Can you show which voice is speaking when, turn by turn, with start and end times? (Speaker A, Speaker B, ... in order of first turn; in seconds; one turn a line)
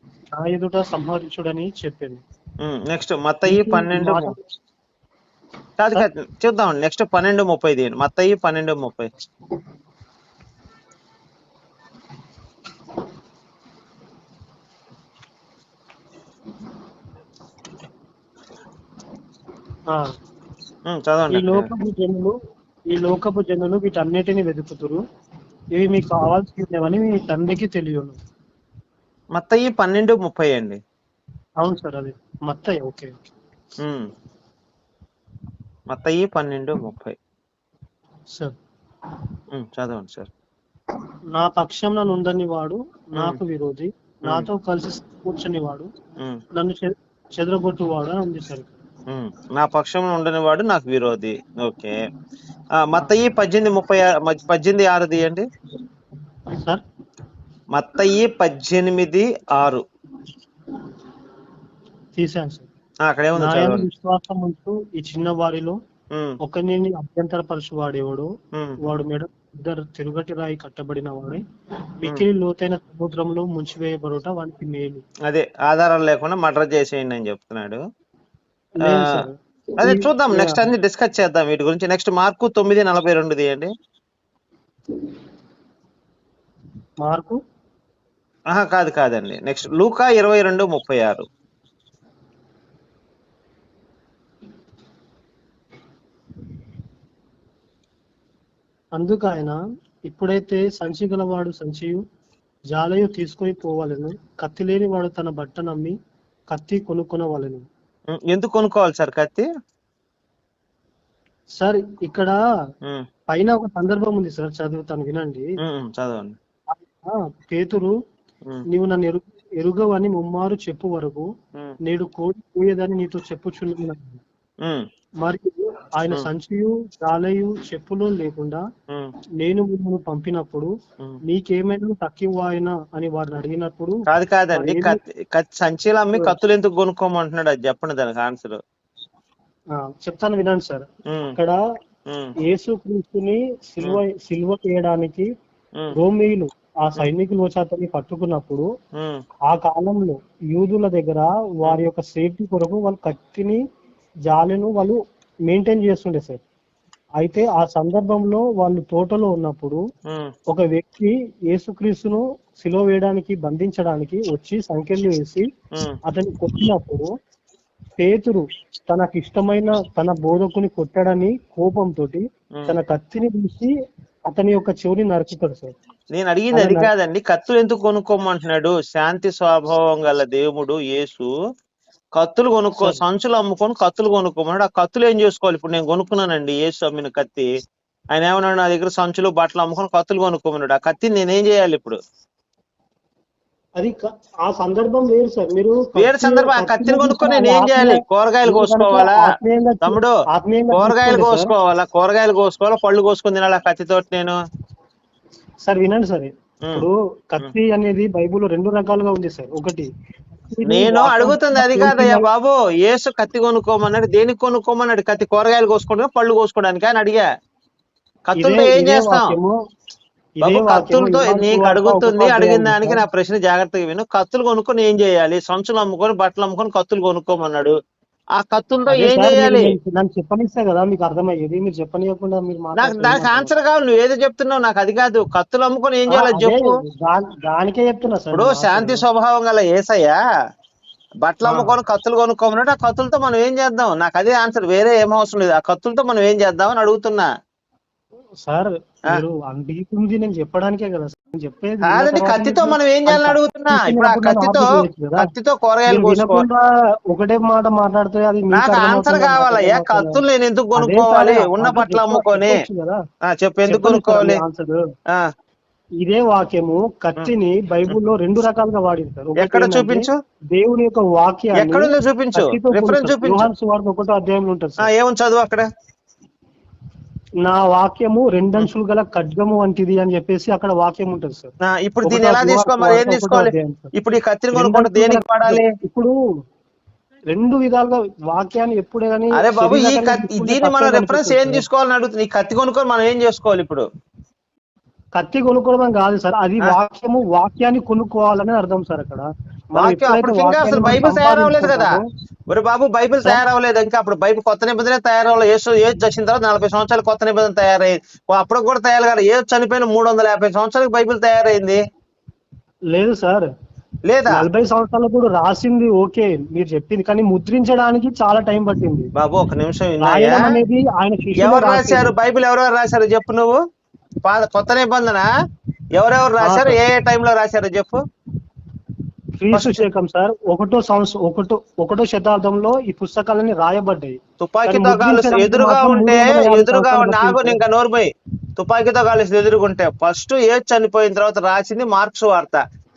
Speaker A: 0.3-2.2
Speaker B: 2.6-4.3
Speaker A: 3.5-4.3
Speaker B: 5.8-9.1
Speaker B: 20.9-21.7
Speaker A: 21.3-22.3
Speaker A: 22.9-25.0
Speaker A: 25.7-28.2
Speaker B: 29.3-30.8
Speaker A: 31.6-33.1
Speaker B: 33.8-34.0
Speaker B: 35.9-37.1
Speaker B: 39.5-40.3
Speaker A: 41.3-45.9
Speaker A: 46.5-48.7
Speaker B: 49.1-52.0
Speaker B: 52.8-55.5
Speaker A: 56.5-56.8
Speaker B: 57.7-59.8
Speaker A: 62.1-62.7
Speaker B: 63.0-63.9
Speaker A: 63.4-65.8
Speaker A: 66.4-71.4
Speaker A: 72.0-75.0
Speaker B: 75.3-77.8
Speaker A: 78.8-80.6
Speaker B: 78.9-79.2
Speaker B: 79.8-83.7
Speaker A: 87.0-87.4
Speaker B: 88.5-91.2
Speaker A: 99.0-102.0
Speaker A: 102.7-105.9
Speaker A: 106.5-107.6
Speaker B: 108.1-109.5
Speaker A: 111.6-112.3
Speaker A: 113.3-115.5
Speaker B: 115.6-116.3
Speaker A: 116.7-117.9
Speaker A: 118.7-121.3
Speaker A: 121.8-124.2
Speaker A: 125.2-128.6
Speaker A: 129.4-130.7
Speaker A: 131.2-134.0
Speaker B: 134.1-138.6
Speaker A: 134.5-135.0
Speaker A: 139.7-141.6
Speaker A: 142.4-145.3
Speaker A: 145.9-148.7
Speaker B: 148.9-149.2
Speaker A: 149.5-153.6
Speaker A: 154.3-156.4
Speaker A: 157.2-159.8
Speaker A: 160.5-165.5
Speaker A: 166.1-167.1
Speaker A: 168.0-173.7
Speaker A: 174.3-175.7
Speaker B: 176.1-181.3
Speaker A: 176.5-176.9
Speaker B: 182.1-187.5
Speaker B: 188.1-192.0
Speaker A: 193.8-201.5
Speaker B: 195.9-199.2
Speaker B: 199.8-200.1
Speaker B: 200.7-204.3
Speaker A: 205.6-209.9
Speaker A: 210.5-212.3
Speaker B: 210.6-217.3
Speaker B: 218.3-219.3
Speaker A: 218.3-219.5
Speaker A: 220.4-223.0
Speaker B: 220.4-227.7
Speaker B: 228.4-229.8
Speaker A: 228.9-233.5
Speaker B: 232.8-236.6
Speaker A: 236.1-239.0
Speaker B: 238.3-240.2
Speaker B: 241.2-247.3
Speaker A: 241.4-241.7
Speaker A: 248.4-255.3
Speaker B: 251.8-256.4
Speaker A: 255.9-260.2
Speaker B: 258.5-262.6
Speaker A: 260.8-263.0
Speaker B: 263.2-264.4
Speaker A: 263.6-264.8
Speaker A: 266.0-274.9
Speaker B: 269.4-270.1
Speaker B: 271.5-273.5
Speaker B: 274.8-275.7
Speaker A: 277.4-281.5
Speaker B: 281.6-285.7
Speaker A: 282.0-283.9
Speaker A: 284.5-286.1
Speaker A: 287.3-291.6
Speaker B: 289.4-293.9
Speaker A: 295.1-302.1
Speaker B: 299.8-301.9
Speaker B: 302.5-311.8
Speaker A: 312.9-313.5
Speaker B: 314.1-314.3
Speaker A: 314.3-319.1
Speaker B: 319.2-320.6
Speaker A: 320.0-322.1
Speaker B: 321.4-323.6
Speaker B: 324.2-325.3
Speaker B: 325.9-328.0
Speaker A: 326.4-326.8
Speaker A: 329.4-337.6
Speaker B: 329.5-329.8
Speaker B: 334.4-342.6